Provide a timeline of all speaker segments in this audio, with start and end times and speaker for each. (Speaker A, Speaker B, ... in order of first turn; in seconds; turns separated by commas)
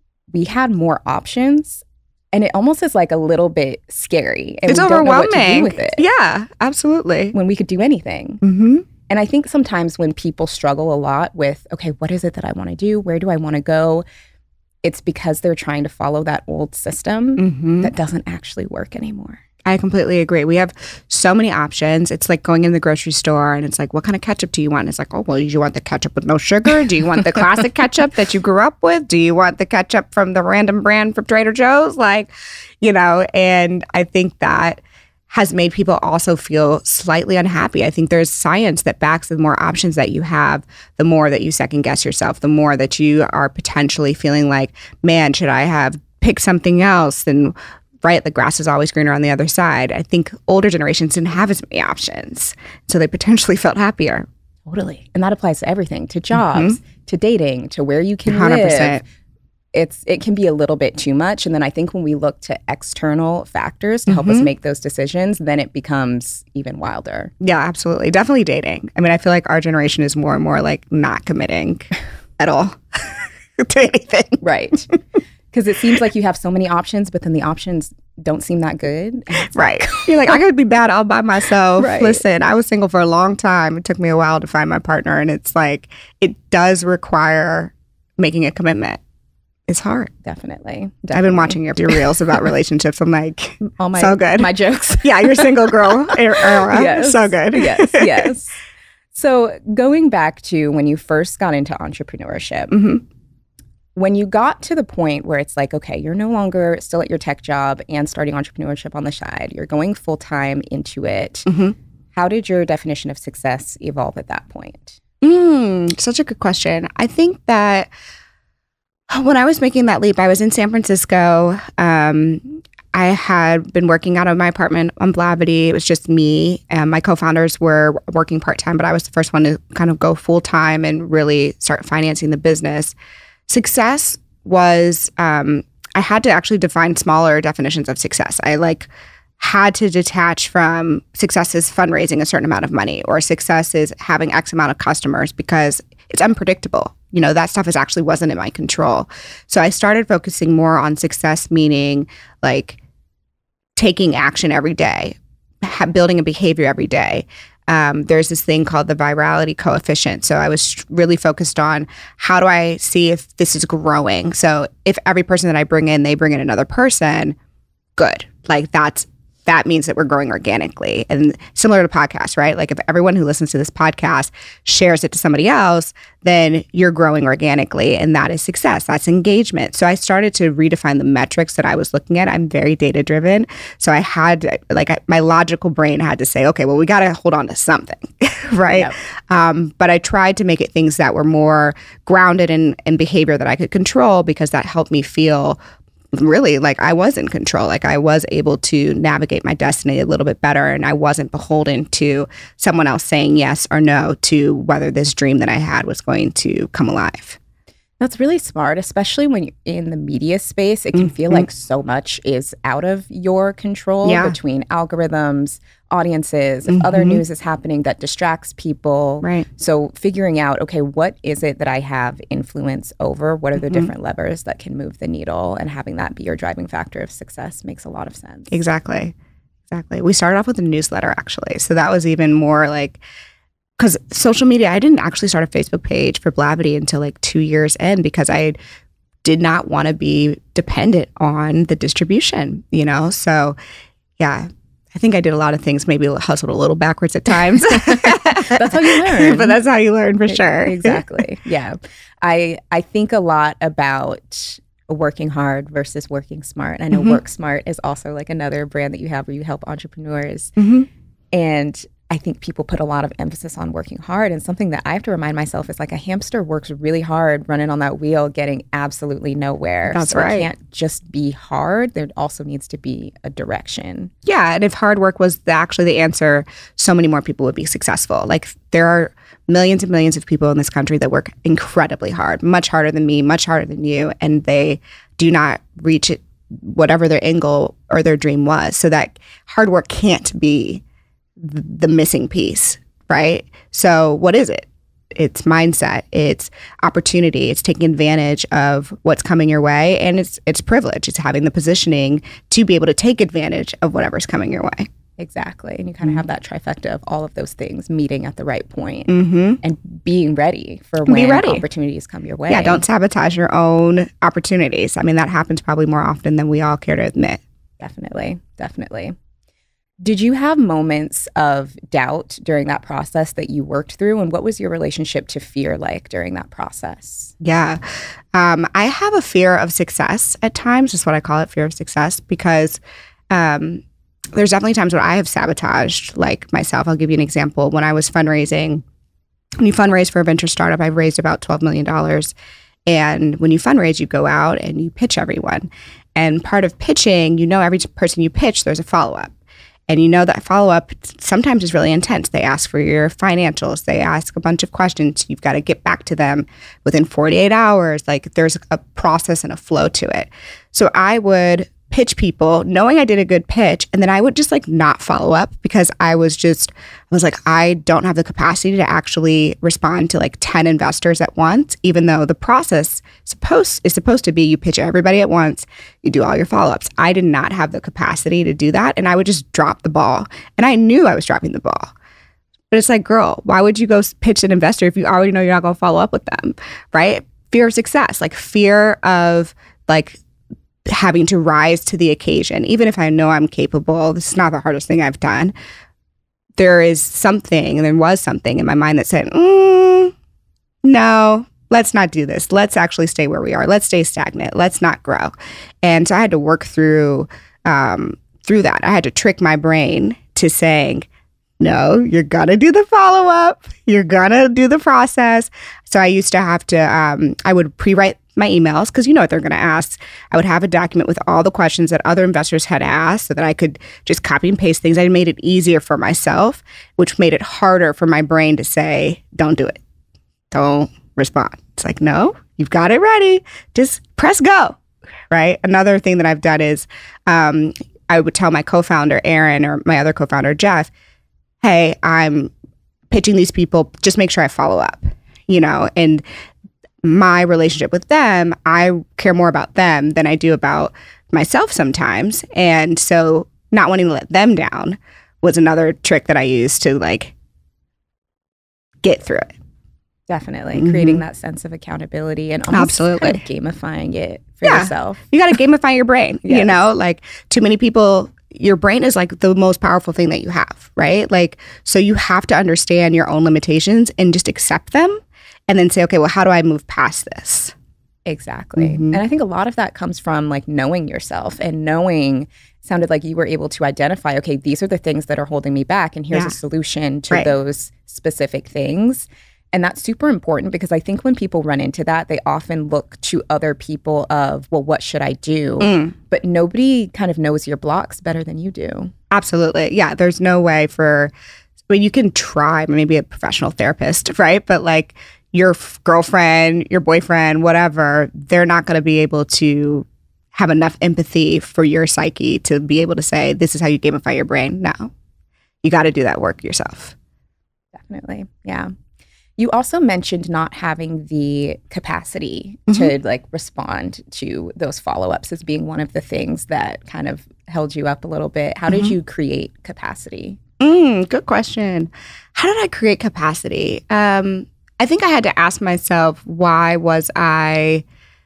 Speaker A: 0.3-6.0, Speaker B: 4.7-7.3, Speaker A: 7.3-8.4, Speaker B: 8.4-8.9, Speaker A: 9.1-14.1, Speaker A: 14.8-19.4, Speaker B: 17.4-17.9, Speaker B: 19.6-32.3, Speaker B: 32.8-54.3, Speaker A: 54.7-59.0, Speaker B: 56.3-56.8, Speaker B: 58.3-59.0, Speaker A: 59.7-67.3, Speaker B: 64.1-64.5, Speaker B: 67.4-74.4, Speaker A: 74.4-74.9, Speaker A: 75.5-80.4, Speaker B: 79.5-89.0, Speaker A: 81.8-82.2, Speaker B: 89.7-90.1, Speaker A: 90.2-92.0, Speaker B: 91.1-98.3, Speaker A: 93.6-98.6, Speaker A: 99.1-102.8, Speaker B: 102.7-103.0, Speaker A: 104.0-111.5, Speaker B: 111.5-111.8, Speaker A: 112.2-115.0, Speaker B: 115.2-117.9, Speaker B: 119.1-132.9, Speaker B: 133.5-152.8, Speaker B: 153.8-167.4, Speaker B: 167.9-195.6, Speaker A: 188.7-188.9, Speaker B: 196.1-207.4, Speaker A: 208.0-228.6, Speaker B: 211.0-211.5, Speaker B: 214.1-214.4, Speaker B: 216.7-217.2, Speaker B: 223.6-223.9, Speaker B: 228.5-229.1, Speaker B: 229.7-233.0, Speaker B: 233.8-238.6, Speaker B: 239.2-243.6, Speaker B: 244.2-251.1, Speaker A: 247.7-249.6, Speaker A: 250.3-260.6, Speaker B: 256.9-257.2, Speaker B: 260.6-260.9, Speaker A: 261.3-274.1, Speaker B: 269.9-270.5, Speaker B: 274.2-290.8, Speaker B: 291.4-304.9, Speaker A: 305.2-312.8, Speaker B: 309.1-309.6, Speaker B: 311.1-311.6, Speaker B: 312.5-317.4, Speaker A: 317.8-319.1, Speaker A: 320.0-327.3, Speaker B: 327.4-327.8, Speaker B: 328.3-332.8, Speaker B: 333.3-338.8, Speaker B: 339.6-342.3, Speaker B: 342.9-349.3, Speaker B: 349.9-381.9, Speaker B: 382.7-390.2, Speaker B: 390.9-395.5, Speaker B: 396.6-400.1, Speaker B: 400.8-411.1, Speaker B: 411.6-429.8, Speaker B: 430.5-434.8, Speaker B: 435.3-440.9, Speaker B: 441.6-442.5, Speaker B: 443.1-446.2, Speaker B: 447.0-457.3, Speaker B: 459.0-459.5, Speaker A: 460.3-465.2, Speaker B: 460.8-461.2, Speaker B: 462.7-463.4, Speaker B: 464.6-477.7, Speaker A: 466.4-466.8, Speaker A: 478.3-499.1, Speaker B: 478.8-479.2, Speaker B: 495.8-496.1, Speaker B: 499.3-501.3, Speaker B: 501.9-515.1, Speaker B: 515.8-517.1, Speaker A: 517.9-518.9, Speaker A: 519.6-530.6, Speaker B: 530.8-538.0